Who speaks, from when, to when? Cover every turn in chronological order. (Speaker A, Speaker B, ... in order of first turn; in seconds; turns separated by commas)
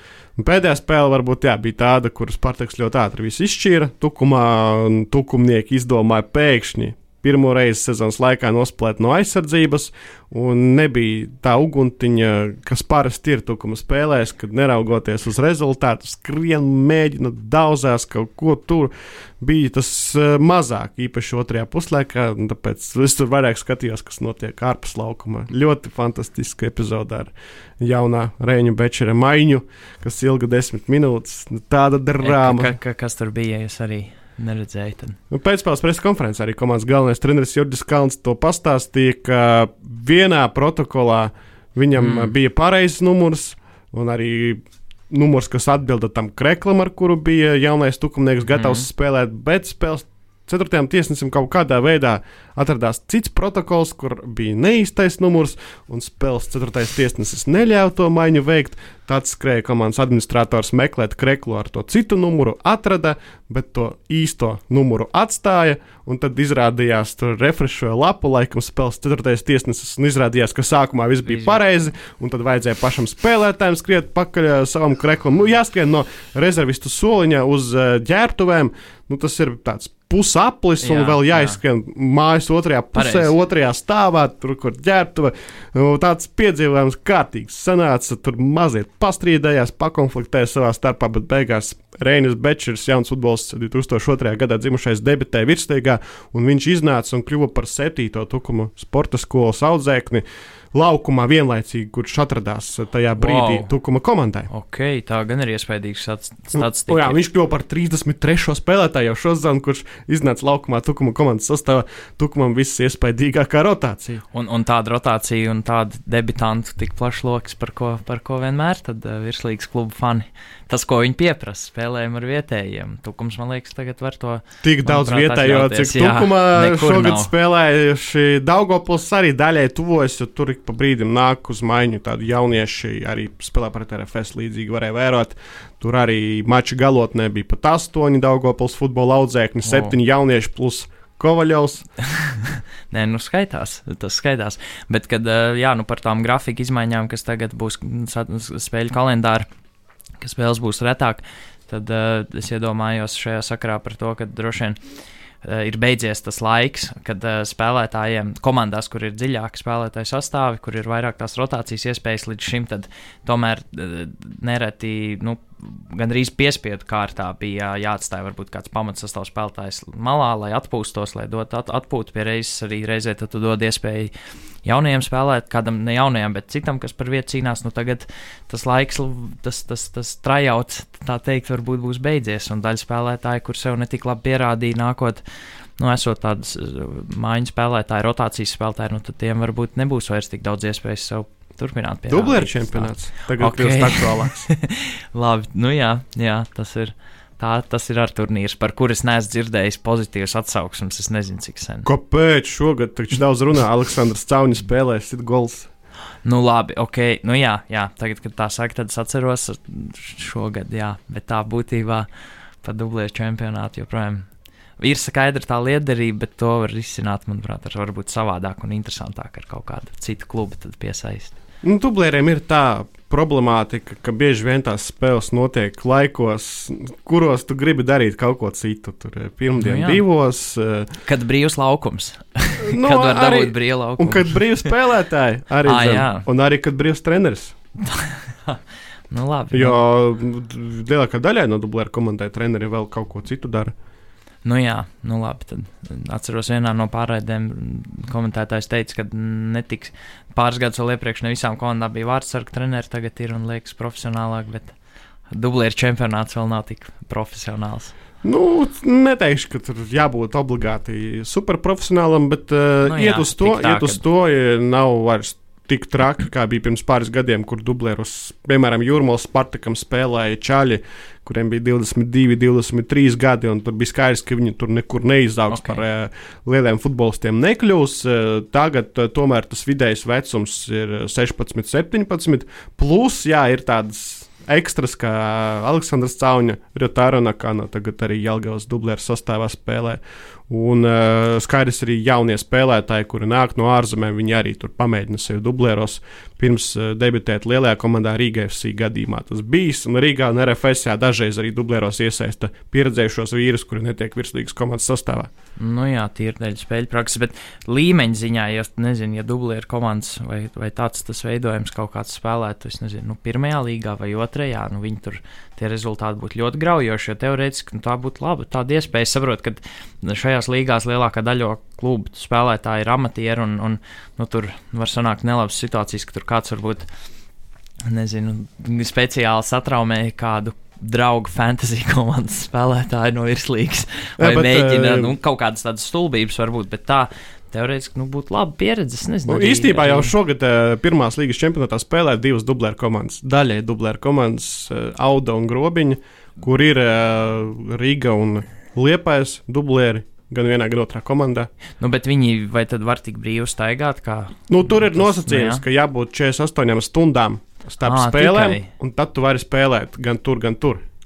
Speaker A: 0.4-32.8, Speaker B: 32.2-35.2, Speaker A: 35.3-104.5, Speaker B: 42.0-42.3, Speaker B: 48.5-48.9, Speaker B: 71.3-71.6, Speaker B: 80.8-81.6, Speaker B: 83.0-83.3, Speaker B: 103.2-103.7, Speaker B: 104.5-107.2, Speaker A: 106.5-114.2, Speaker B: 114.3-127.3, Speaker A: 124.6-141.9, Speaker B: 139.6-139.9, Speaker B: 142.2-149.5, Speaker B: 150.2-154.8, Speaker B: 155.4-174.1, Speaker B: 174.7-185.2, Speaker B: 185.8-201.9, Speaker A: 192.1-194.5, Speaker A: 201.8-205.7, Speaker B: 206.2-212.1, Speaker B: 212.6-214.2, Speaker B: 214.8-221.3, Speaker A: 221.6-231.0, Speaker B: 229.6-230.0, Speaker B: 231.1-234.7, Speaker A: 232.6-237.6, Speaker B: 235.7-236.3, Speaker B: 237.8-239.8, Speaker A: 239.5-243.7, Speaker B: 244.4-254.7, Speaker B: 255.3-257.9, Speaker A: 258.2-305.3, Speaker B: 262.8-264.0, Speaker B: 275.5-275.8, Speaker B: 305.6-326.9, Speaker B: 327.9-340.1, Speaker A: 334.2-335.1, Speaker A: 339.3-351.5, Speaker B: 351.8-355.6, Speaker A: 354.5-360.8, Speaker B: 357.8-358.7